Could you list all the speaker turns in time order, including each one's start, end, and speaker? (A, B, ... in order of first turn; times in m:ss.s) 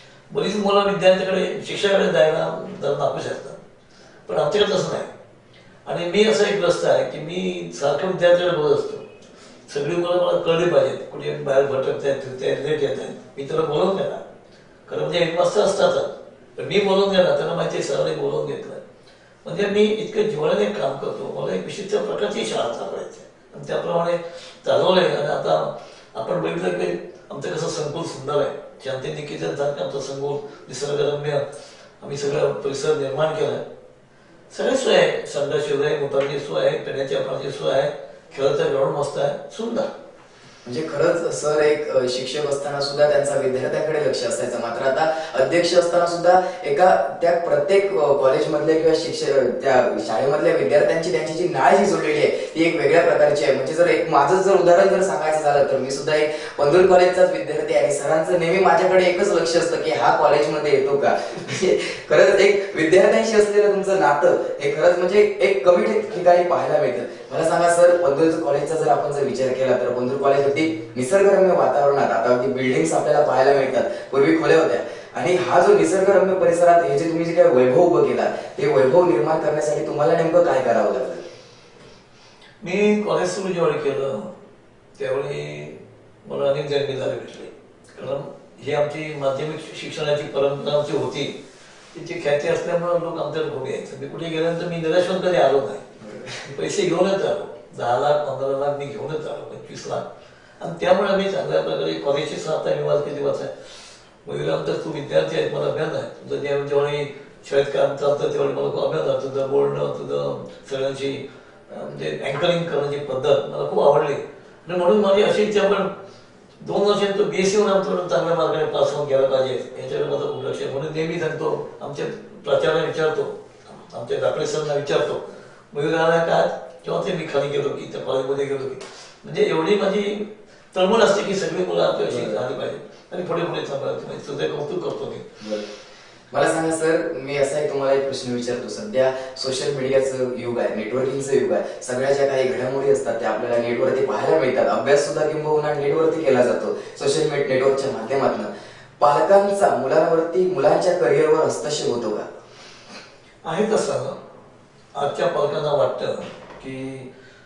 0:00.3-0:03.6 A
0:04.3-0:05.1 A
0:05.9-0:09.1 A
0:09.7-0:14.2 A
0:14.9-0:18.8 A
0:19.4-0:31.4 A
0:32.0-0:33.6 A
0:34.5-0:39.9 A
0:40.6-1:21.2 B
1:22.6-1:24.3 A
1:25.0-1:31.4 A
1:31.9-1:40.1 A
1:36.0-1:36.4 B
1:40.6-1:43.5 A
1:44.2-1:55.9 A
1:56.6-2:15.4 A
2:12.1-2:12.4 B
2:15.4-2:15.7 B
2:16.3-2:32.3 B
2:33.4-2:34.2 A
2:35.0-2:37.1 A